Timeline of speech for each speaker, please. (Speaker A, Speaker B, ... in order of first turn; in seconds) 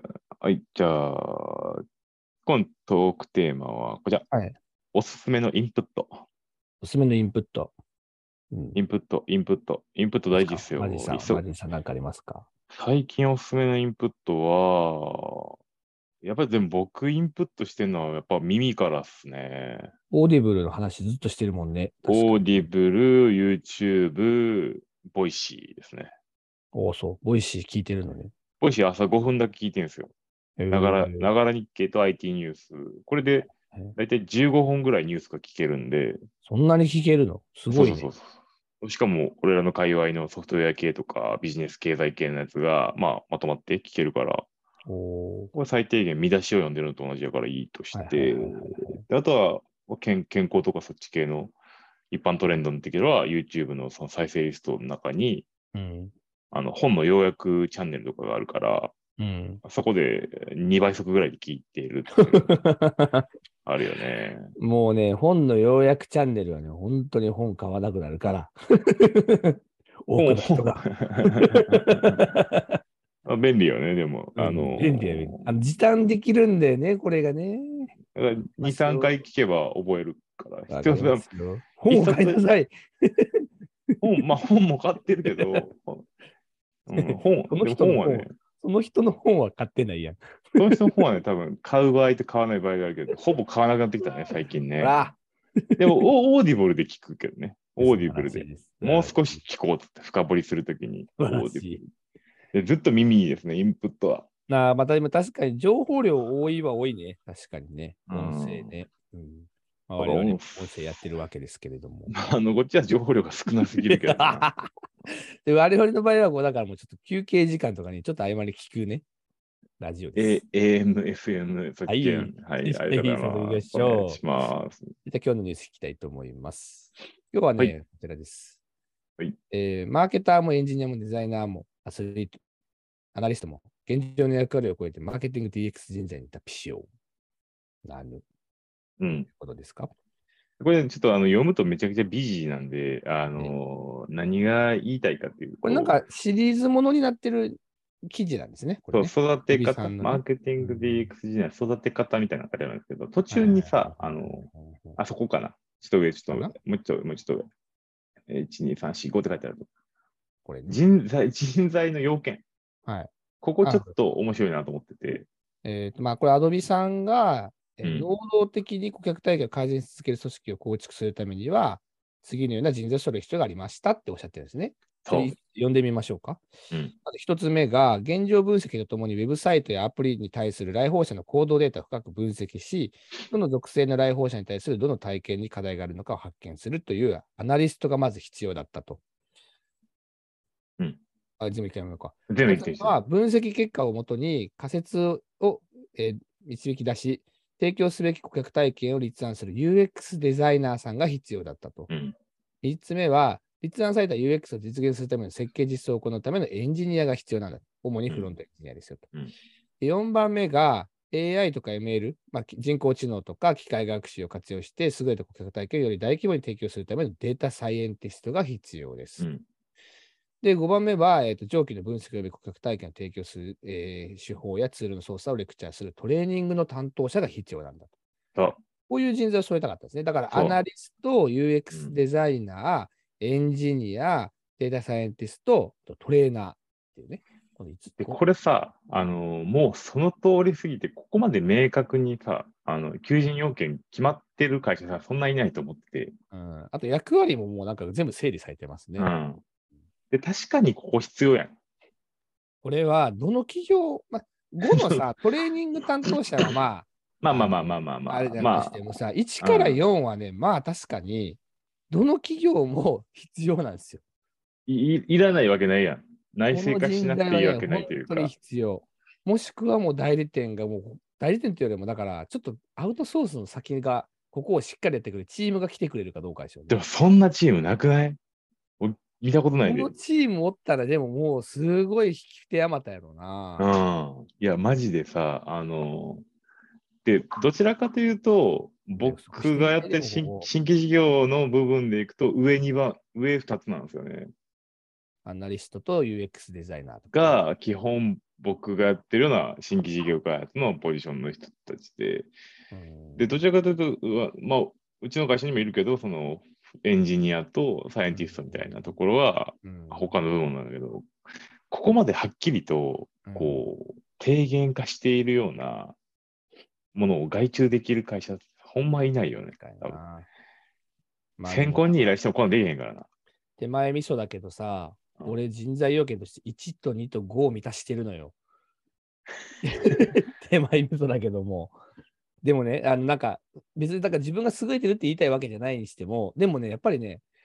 Speaker A: 0.4-1.8, 2.5-4.2, 4.9-6.2, 8.7-11.4, 12.7-15.5, 16.2-19.9, 22.1-26.1, 28.6-30.1, 30.7-36.2, 37.7-44.5, 45.5-51.5, 52.1-55.5, 56.5-58.9, 59.6-62.6, 63.6-64.5, 70.2-72.3, 73.2-75.5, 78.1-81.3, 81.9-82.4, 84.0-86.0, 86.9-88.3, 90.5-95.0, 95.8-101.8, 102.5-104.3, 108.1-108.8, 110.0-110.6, 112.1-114.5, 120.2-124.9, 139.0-139.3, 140.6-146.0, 148.9-157.5, 158.3-159.7, 160.7-162.4, 163.4-165.3, 167.8-168.1, 175.0-175.3, 192.3-192.9, 201.9-202.1, 219.2-219.4, 230.3-230.6, 231.7-232.0, 238.0-246.1, 249.0-249.4, 250.1-251.6, 257.2-258.8, 259.4-259.8, 264.7-268.3, 276.7-278.2, 278.8-279.9, 283.6-286.2, 287.0-294.3, 297.1-302.3, 303.1-311.1, 311.7-316.0, 316.9-320.0, 321.4-323.1
Speaker B: 6.8-7.7, 10.3-12.4, 20.1-22.7, 26.7-28.3, 30.6-31.3, 36.4-38.1, 44.9-45.5, 47.9-49.0, 55.7-56.1, 59.2-59.6, 62.2-63.2, 64.6-72.8, 74.3-77.9, 78.6-79.1, 80.7-84.0, 85.2-85.7, 86.9-91.0, 94.8-95.2, 97.8-99.4, 101.2-101.8, 104.5-112.1, 113.9-119.0, 119.8-120.4, 121.9-124.2, 125.0-128.6, 129.5-132.4, 133.1-136.8, 137.8-138.2, 139.1-139.9, 145.6-151.1, 153.3-155.0, 156.3-156.5, 160.4-160.8, 162.8-163.1, 163.6-163.9, 165.6-176.4, 177.0-189.0, 191.4-201.9, 202.6-209.1, 209.8-219.2, 220.4-227.9, 228.9-238.2, 246.3-249.1, 252.6-261.4, 261.9-264.0, 266.5-276.8, 279.6-283.7, 289.0-290.5, 295.2-297.4, 302.7-303.3, 308.1-309.0, 309.6-310.1, 313.2-313.6, 319.6-320.3, 321.4-321.8, 323.6-328.4, 329.6-331.7, 332.4-337.2